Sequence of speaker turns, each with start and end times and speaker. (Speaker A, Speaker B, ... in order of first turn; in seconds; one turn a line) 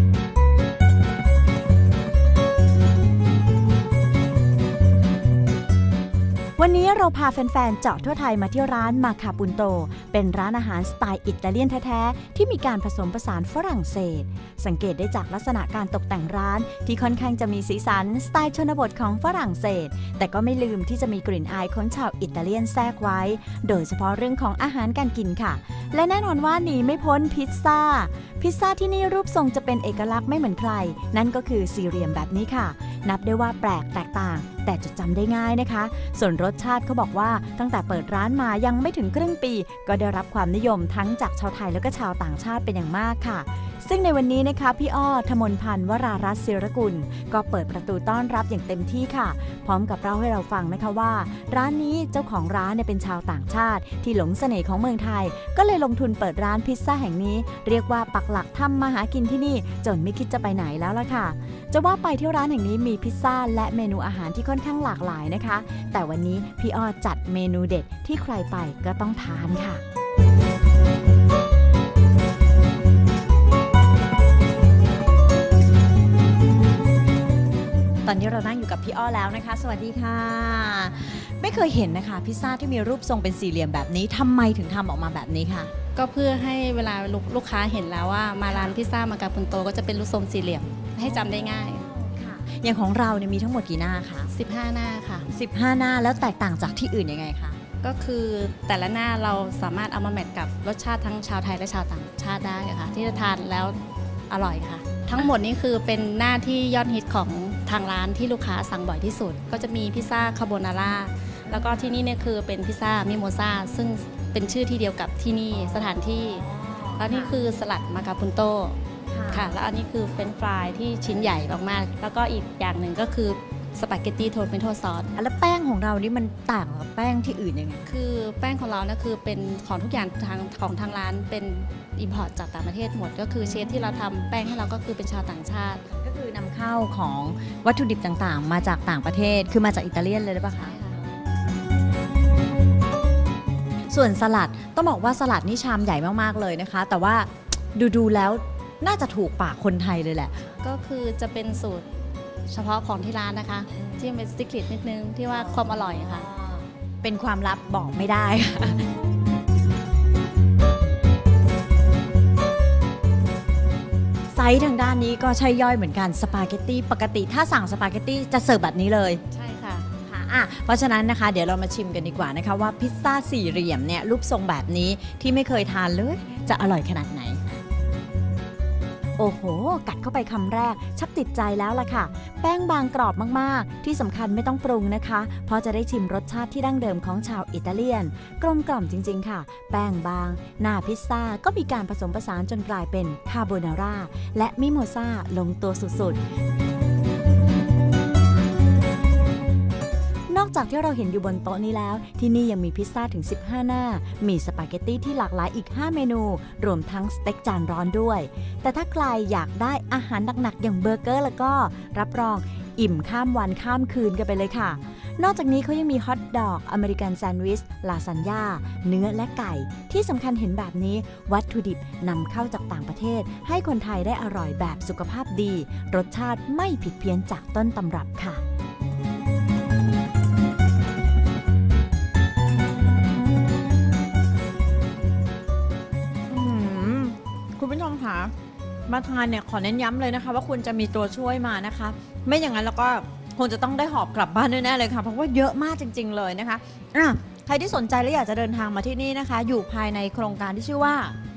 Speaker A: 6.6-69.8
Speaker A: 78.1-85.7
Speaker B: 86.0-91.8
Speaker A: 88.5-88.8
Speaker A: 91.0-94.3
Speaker B: 94.3-95.3
Speaker A: 95.3-97.6
Speaker B: 97.8-103.8
Speaker B: 104.3-118.8
Speaker A: 111.5-111.9
Speaker A: 116.4-117.4
Speaker A: 119.1-119.5
Speaker B: 119.3-125.1
Speaker A: 125.2-127.9
Speaker B: 127.9-135.8
Speaker A: 135.9-140.7
Speaker B: 140.6-141.0
Speaker A: 143.9-150.5
Speaker B: 150.6-151.9
Speaker B: 152.5-156.2
Speaker A: 153.8-154.2
Speaker A: 155.3-158.9
Speaker A: 164.3-169.2
Speaker B: 169.3-169.9
Speaker A: 170.1-177.6
Speaker A: 179.2-196.2
Speaker A: 200.3-228.4
Speaker A: 236.3-238.3
Speaker A: 238.9-251.2